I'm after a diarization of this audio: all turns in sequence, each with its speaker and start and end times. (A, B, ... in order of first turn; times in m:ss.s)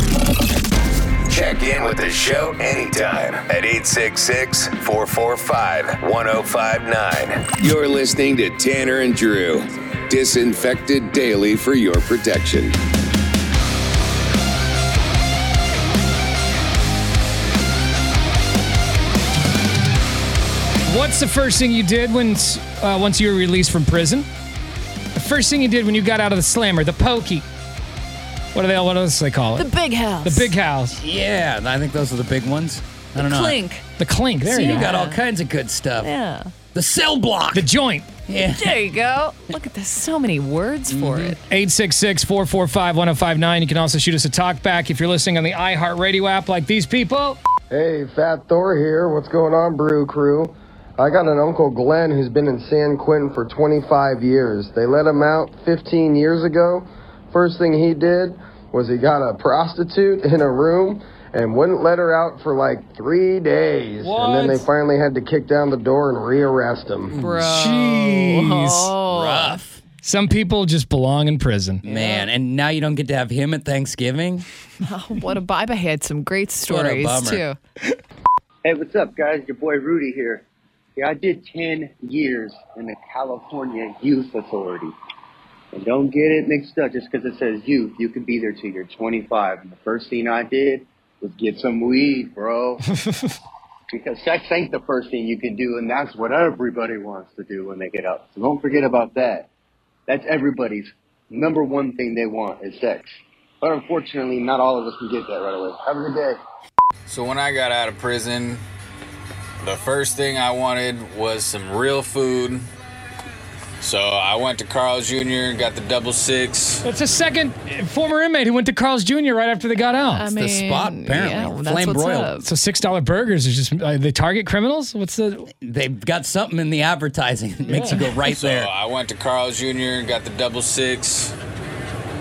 0:01.3-0:12.8 A
0:20.9-0:24.2 B
0:25.1-0:27.4 B
0:28.5-0:29.7 B
0:29.6-0:30.5 C
0:30.2-0:31.0 B
0:30.9-0:33.6 D
0:33.2-0:33.8 C
0:34.0-0:34.8 B
0:34.4-0:36.1 D
0:34.4-0:35.2 C
0:36.0-0:36.5 C
0:36.7-0:37.6 D
0:37.5-0:38.1 B
0:38.3-0:38.7 D
0:38.5-0:41.4 C
0:40.9-0:41.4 D
0:41.5-0:47.4 B
0:47.7-1:07.1 E
1:04.0-1:04.7 B
1:07.1-1:07.6 D
1:07.1-1:09.6 C
1:07.5-1:08.9 B
1:09.1-1:09.8 D
1:10.0-1:11.8 B
1:11.8-1:14.4 D
1:11.8-1:12.3 C
1:14.8-1:17.6 C
1:16.7-1:17.4 D
1:18.6-1:24.9 F
1:25.7-1:32.8 F
1:33.9-1:39.5 F
1:40.1-1:43.1 F
1:43.6-1:46.4 F
1:47.1-1:48.6 G
1:49.6-1:52.7 G
1:53.8-1:56.8 G
1:56.8-2:00.3 B
2:00.1-2:02.5 C
2:00.3-2:02.4 D
2:02.4-2:05.5 B
2:05.6-2:08.7 D
2:07.7-2:08.0 B
2:08.2-2:11.3 G